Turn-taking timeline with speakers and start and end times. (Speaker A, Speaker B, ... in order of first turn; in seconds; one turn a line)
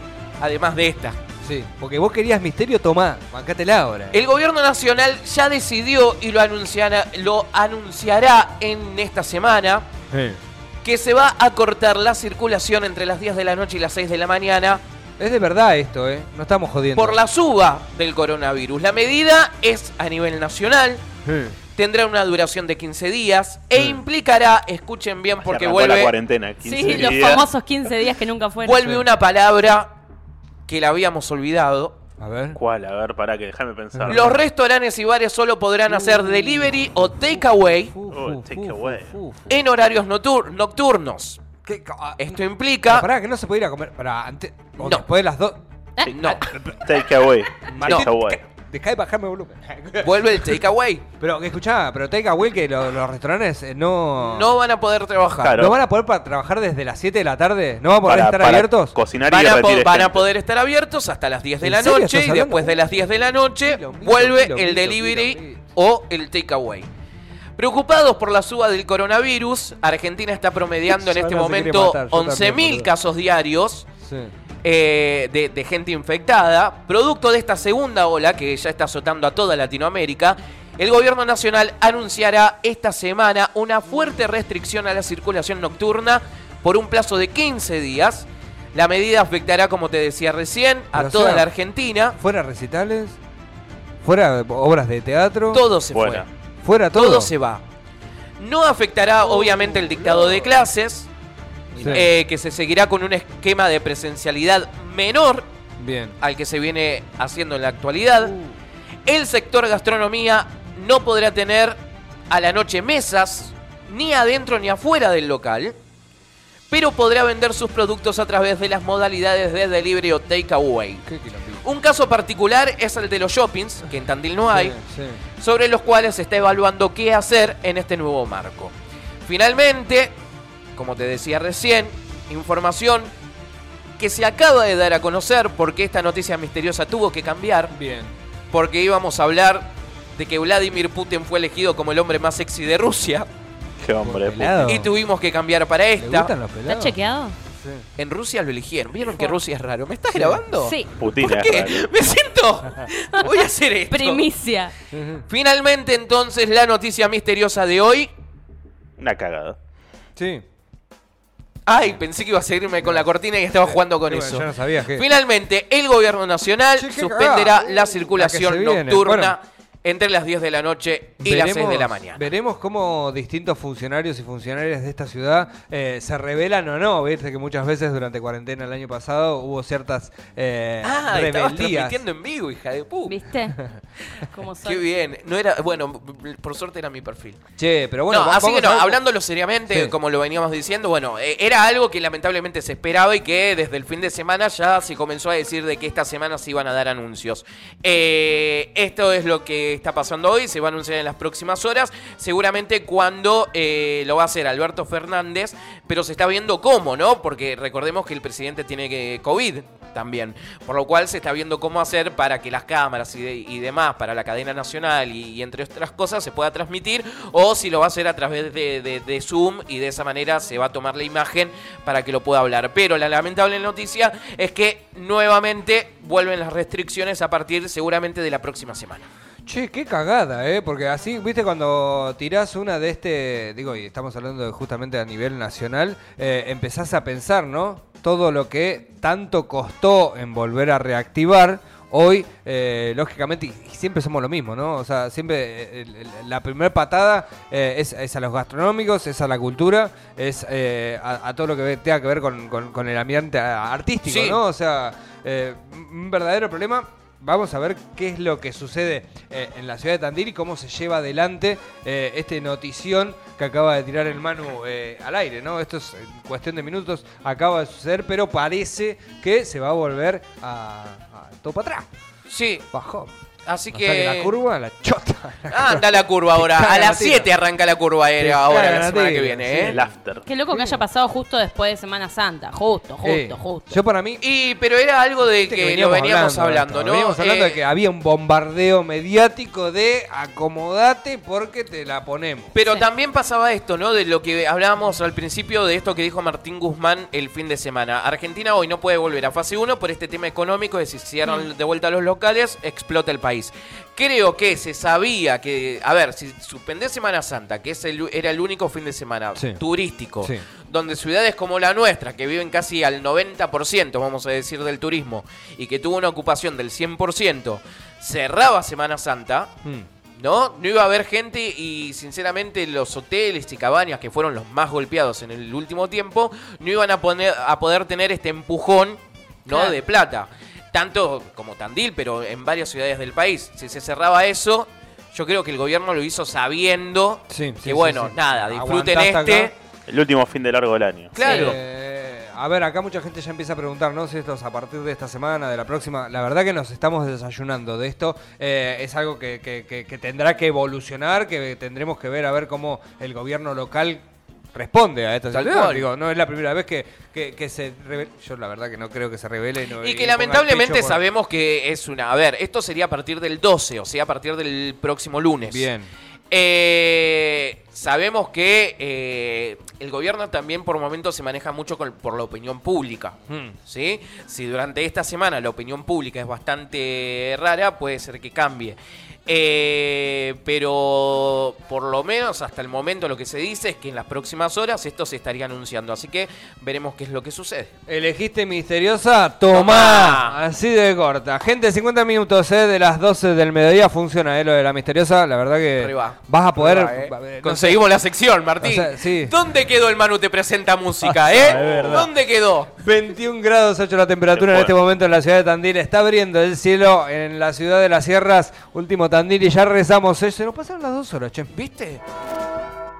Speaker A: 0.4-1.2
Speaker B: 1.4-4.2
Speaker A: 4.1-9.8
Speaker B: 10.1-10.4
Speaker A: 10.8-14.8
Speaker B: 15.2-17.2
Speaker A: 16.9-21.0
Speaker B: 21.2-21.5
Speaker A: 21.7-26.1
Speaker B: 23.7-24.0
Speaker C: 25.4-27.5
Speaker D: 26.6-29.0
Speaker A: 26.9-27.4
Speaker A: 28.6-29.9
Speaker A: 30.7-31.9
Speaker B: 32.2-32.6
Speaker C: 32.5-34.4
Speaker B: 33.9-34.4
Speaker A: 34.1-38.0
Speaker B: 35.9-36.7
Speaker B: 37.9-39.6
Speaker C: 38.1-39.1
Speaker A: 39.5-41.4
Speaker B: 41.6-42.2
Speaker A: 42.2-43.0
Speaker B: 42.9-45.6
Speaker A: 44.8-45.0
Speaker A: 46.0-46.5
Speaker C: 46.0-48.4
Speaker B: 46.3-47.0
Speaker A: 47.7-48.4
Speaker B: 47.7-50.6
Speaker A: 50.0-51.0
Speaker B: 51.2-54.6
Speaker A: 54.1-55.6
Speaker B: 55.3-59.0
Speaker C: 55.4-55.8
Speaker C: 58.0-60.2
Speaker A: 59.3-66.9
Speaker B: 61.6-62.9
Speaker B: 63.6-65.6
Speaker A: 67.6-73.8
Speaker B: 70.9-72.9
Speaker B: 74.0-74.3
Speaker A: 74.6-92.2
Speaker B: 90.9-91.5
Speaker B: 92.2-93.2
Speaker B: 94.0-95.6
Speaker A: 95.5-96.3
Speaker C: 95.9-96.3
Speaker B: 96.6-97.3
Speaker A: 96.9-97.6
Speaker A: 98.4-101.1
Speaker B: 99.2-100.5
Speaker B: 101.7-102.1
Speaker A: 101.8-105.4
Speaker B: 105.8-106.2
Speaker A: 106.2-108.3
Speaker B: 108.2-108.5
Speaker A: 109.0-111.8
Speaker A: 112.3-115.7
Speaker A: 116.7-121.0
Speaker B: 121.0-121.6
Speaker A: 121.6-124.8
Speaker B: 124.5-125.2
Speaker A: 125.4-128.7
Speaker A: 129.2-130.1
Speaker A: 130.7-133.1
Speaker A: 134.0-137.7
Speaker B: 137.7-138.1
Speaker A: 138.5-143.3
Speaker C: 143.8-144.8
Speaker B: 144.0-144.9
Speaker A: 144.6-146.3
Speaker B: 146.0-146.9
Speaker D: 146.7-147.3
Speaker B: 147.6-147.8
Speaker A: 148.0-154.2
Speaker D: 149.1-149.4
Speaker B: 150.1-150.4
Speaker D: 150.5-150.9
Speaker C: 151.0-151.8
Speaker D: 153.9-154.7
Speaker B: 154.9-155.2
Speaker A: 155.3-158.1
Speaker C: 159.0-159.6
Speaker B: 160.2-160.4
Speaker A: 161.7-172.3
Speaker B: 163.6-165.1
Speaker B: 166.8-169.3
Speaker B: 171.2-182.0
Speaker A: 180.8-183.2
Speaker D: 183.0-183.6
Speaker D: 184.1-184.8
Speaker A: 184.6-187.4
Speaker B: 187.6-189.0
Speaker A: 188.1-229.0
Speaker B: 189.7-189.9
Speaker B: 229.4-271.9
Speaker A: 254.0-254.4
Speaker A: 272.3-272.6
Speaker B: 272.7-273.1
Speaker A: 273.5-274.4
Speaker B: 273.7-277.3
Speaker A: 275.5-279.8
Speaker B: 278.2-279.9
Speaker C: 279.6-280.2
Speaker D: 280.2-283.8
Speaker B: 280.5-280.8
Speaker B: 283.0-284.2
Speaker A: 284.2-287.6
Speaker B: 285.4-292.5
Speaker A: 292.5-319.5
Speaker B: 309.4-309.6
Speaker A: 320.2-339.5
Speaker B: 337.3-339.5
Speaker C: 339.9-341.5
Speaker A: 341.1-341.6
Speaker B: 341.2-361.0
Speaker A: 355.3-355.9
Speaker A: 359.7-365.7
Speaker B: 365.5-365.9
Speaker A: 366.3-387.7
Speaker B: 373.3-373.6
Speaker B: 387.9-397.8
Speaker A: 389.5-390.4
Speaker A: 395.8-402.7
Speaker B: 398.6-399.3
Speaker B: 401.0-402.1
Speaker C: 401.4-402.1
Speaker B: 402.7-411.5
Speaker C: 404.3-404.7
Speaker A: 411.5-412.0